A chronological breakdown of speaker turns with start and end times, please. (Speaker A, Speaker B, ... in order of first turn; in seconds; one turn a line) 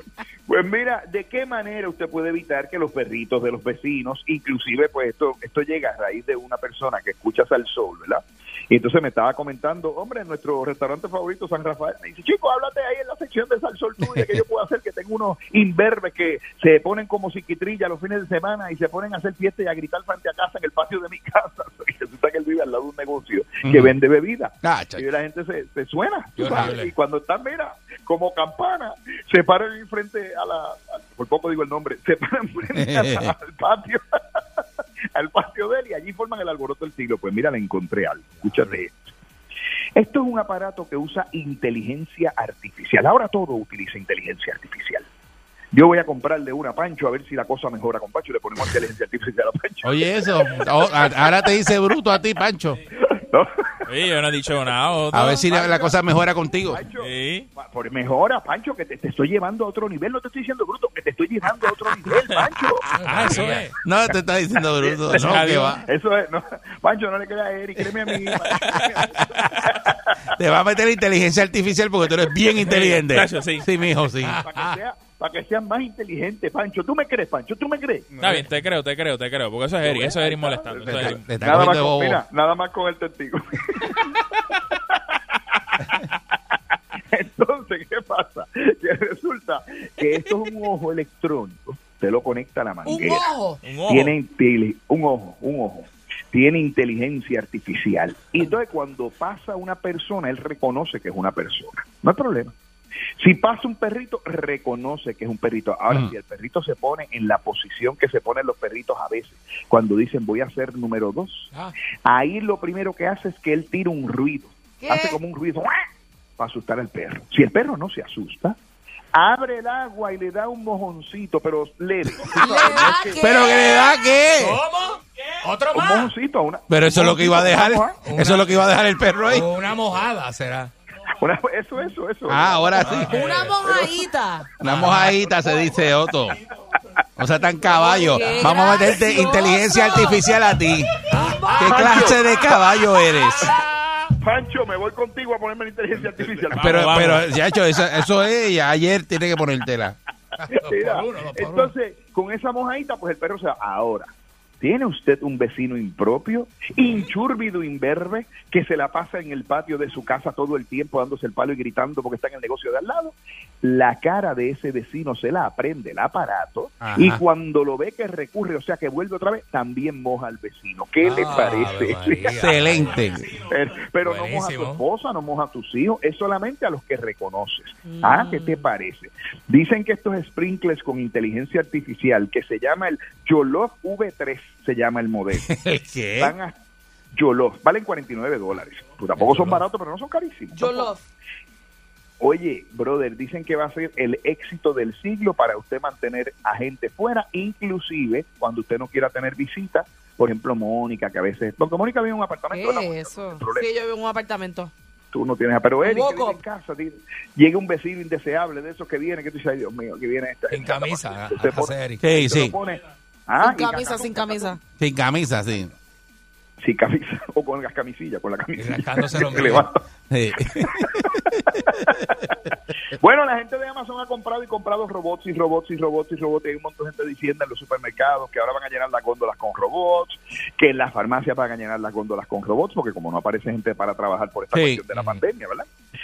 Speaker A: 0.5-34.0
Speaker B: 14.1-14.4
Speaker B: 23.6-23.9
Speaker B: 24.6-25.1
Speaker C: 26.4-26.9
Speaker B: 32.8-33.3
Speaker A: 35.1-39.0
Speaker A: 40.0-45.1
Speaker A: 45.7-50.0
Speaker B: 49.8-52.8
Speaker A: 53.1-53.5
Speaker D: 53.9-55.5
Speaker B: 55.1-56.9
Speaker A: 55.3-56.0
Speaker A: 56.7-62.9
Speaker D: 57.0-57.5
Speaker D: 63.1-63.6
Speaker C: 63.2-63.7
Speaker B: 63.2-65.8
Speaker A: 64.8-70.0
Speaker D: 65.2-65.8
Speaker B: 70.4-74.4
Speaker D: 72.7-73.7
Speaker C: 74.2-74.7
Speaker A: 74.3-78.1
Speaker B: 78.2-78.5
Speaker D: 78.2-81.2
Speaker A: 79.8-84.0
Speaker B: 80.9-82.2
Speaker A: 87.1-93.3
Speaker E: 92.9-93.6
Speaker D: 93.6-94.1
Speaker A: 93.8-102.5
Speaker A: 103.2-111.5
Speaker A: 112.0-115.8
Speaker E: 114.8-115.2
Speaker A: 116.4-118.6
Speaker A: 119.1-123.5
Speaker E: 122.4-123.9
Speaker B: 122.9-124.6
Speaker C: 124.5-124.9
Speaker A: 125.7-128.0
Speaker B: 126.7-129.5
Speaker C: 128.1-128.5
Speaker C: 129.3-130.7
Speaker A: 131.2-134.0
Speaker B: 132.3-133.1
Speaker E: 133.1-134.5
Speaker B: 134.6-136.4
Speaker B: 137.2-140.9
Speaker E: 137.7-140.2
Speaker E: 141.2-141.7
Speaker B: 141.6-143.5
Speaker A: 141.6-142.7
Speaker A: 144.2-147.2
Speaker B: 146.5-150.0
Speaker D: 146.6-147.3
Speaker A: 150.5-172.8
Speaker C: 150.7-151.6
Speaker B: 166.8-167.2
Speaker B: 172.4-173.3
Speaker A: 173.4-185.5
Speaker E: 177.9-178.7
Speaker B: 185.4-186.3
Speaker A: 186.2-186.6
Speaker A: 187.1-190.9
Speaker E: 190.5-191.0
Speaker A: 192.2-203.7
Speaker E: 202.5-204.7
Speaker A: 205.1-214.6
Speaker E: 205.8-206.4
Speaker B: 212.0-212.6
Speaker E: 213.4-214.6
Speaker B: 214.8-215.7
Speaker A: 216.6-219.8
Speaker B: 220.1-221.6
Speaker A: 220.4-222.2
Speaker A: 223.0-235.7
Speaker B: 234.5-234.8